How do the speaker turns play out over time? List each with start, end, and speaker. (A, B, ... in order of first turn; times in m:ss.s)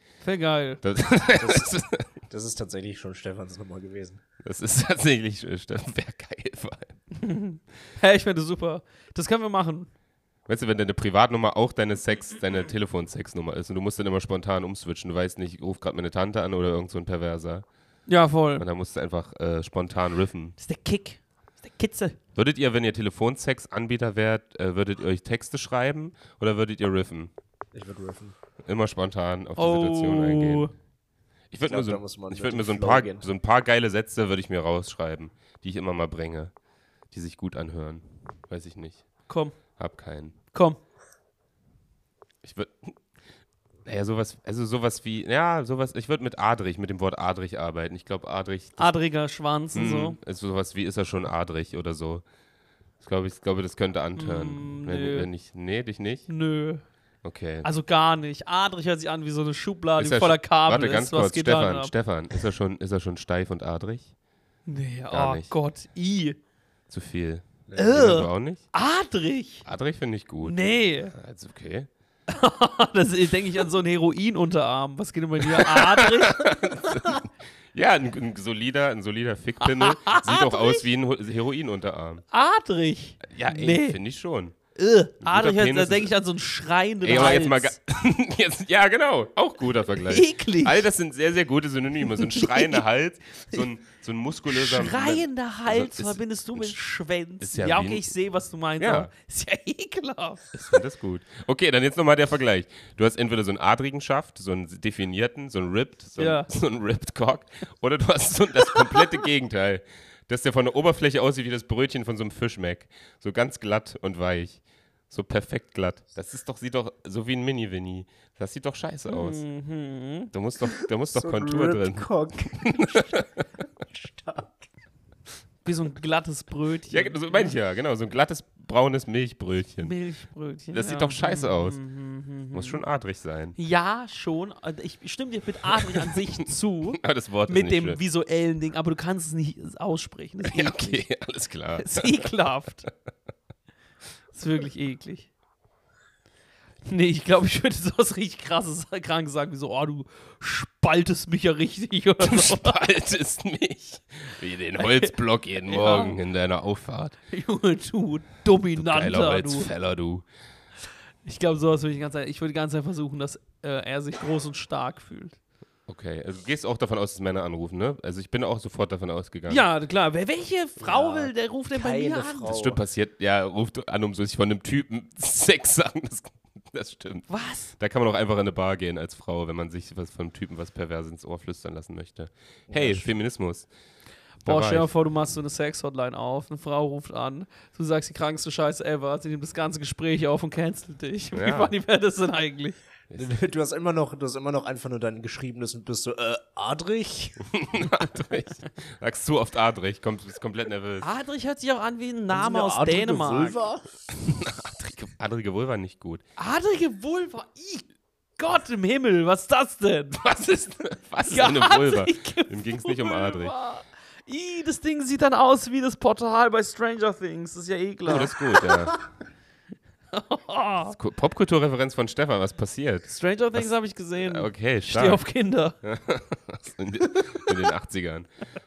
0:00.2-0:00.8 A
0:00.8-0:02.1 B
0:01.4-0:01.7 C
0:02.3-0:04.2 C
0:04.4-0:07.0 B
0:07.2-0:09.9 A
0:10.5-0:17.7 B
0:18.1-0:18.6 A
0:18.6-0:20.6 B
0:20.6-0:22.2 A
0:22.4-0:27.3 B
0:27.7-0:28.4 C
0:28.6-0:30.7 B
0:29.6-0:30.7 A
0:31.5-0:36.5 B
0:31.7-0:33.3 C
0:37.1-0:39.1 B
0:39.3-0:39.6 A
0:39.8-0:40.4 B
0:40.5-0:40.8 A
0:42.4-0:43.0 B
0:43.8-0:48.9 B
0:48.8-0:50.2 A
0:49.7-0:52.2 B
0:53.0-0:56.3 B
0:54.2-0:55.3 A
0:56.3-0:56.8 A
0:57.2-0:57.7 B
0:57.6-1:02.4 A
1:00.0-1:04.1 B
1:04.7-1:06.4 A
1:05.1-1:05.5 B
1:06.9-1:08.6 B
1:07.7-1:08.0 C
1:07.8-1:09.6 A
1:09.6-1:11.9 B
1:10.4-1:11.1 A
1:12.3-1:17.2 A
1:15.5-1:22.2 B
1:19.6-1:20.8 A
1:22.3-1:24.0 A
1:23.2-1:24.6 B
1:24.8-1:27.8 A
1:25.2-1:26.1 B
1:27.0-1:36.8 B
1:30.1-1:30.9 A
1:32.0-1:32.8 A
1:34.5-1:40.8 A
1:37.4-1:38.1 B
1:38.8-1:39.1 B
1:40.5-1:59.4 B
1:46.2-1:46.5 A
1:59.1-2:00.3 A
2:00.3-2:03.5 B
2:01.1-2:03.3 C
2:03.8-2:04.7 C
2:05.6-2:07.6 A
2:06.9-2:09.9 B
2:09.8-2:12.8 A
2:10.7-2:11.8 B
2:12.5-2:13.6 B
2:13.6-2:21.0 A
2:15.8-2:16.2 B
2:16.9-2:18.0 B
2:20.4-2:22.3 B
2:21.8-2:22.9 A
2:24.3-2:25.3 A
2:26.9-2:32.8 A
2:32.2-2:37.2 B
2:34.8-2:35.1 A
2:35.7-2:36.2 A
2:37.3-2:39.7 A
2:38.8-2:40.2 B
2:41.2-2:45.4 A
2:45.9-2:49.6 B
2:49.5-2:52.6 A
2:50.8-2:52.8 C
2:52.5-3:03.7 B
2:57.3-2:57.7 A
3:02.7-3:03.1 C
3:04.4-3:04.9 B
3:04.4-3:12.8 A
3:11.3-3:11.7 B
3:13.1-3:17.4 C
3:17.4-3:21.1 B
3:21.0-3:23.6 A
3:22.3-3:23.9 C
3:24.1-3:26.2 B
3:26.4-3:27.9 A
3:28.4-3:30.4 A
3:30.2-3:33.5 B
3:31.3-3:39.0 A
3:38.1-3:39.0 B
3:40.1-3:41.0 A
3:40.9-3:45.2 B
3:43.1-3:45.8 A
3:45.8-3:48.3 B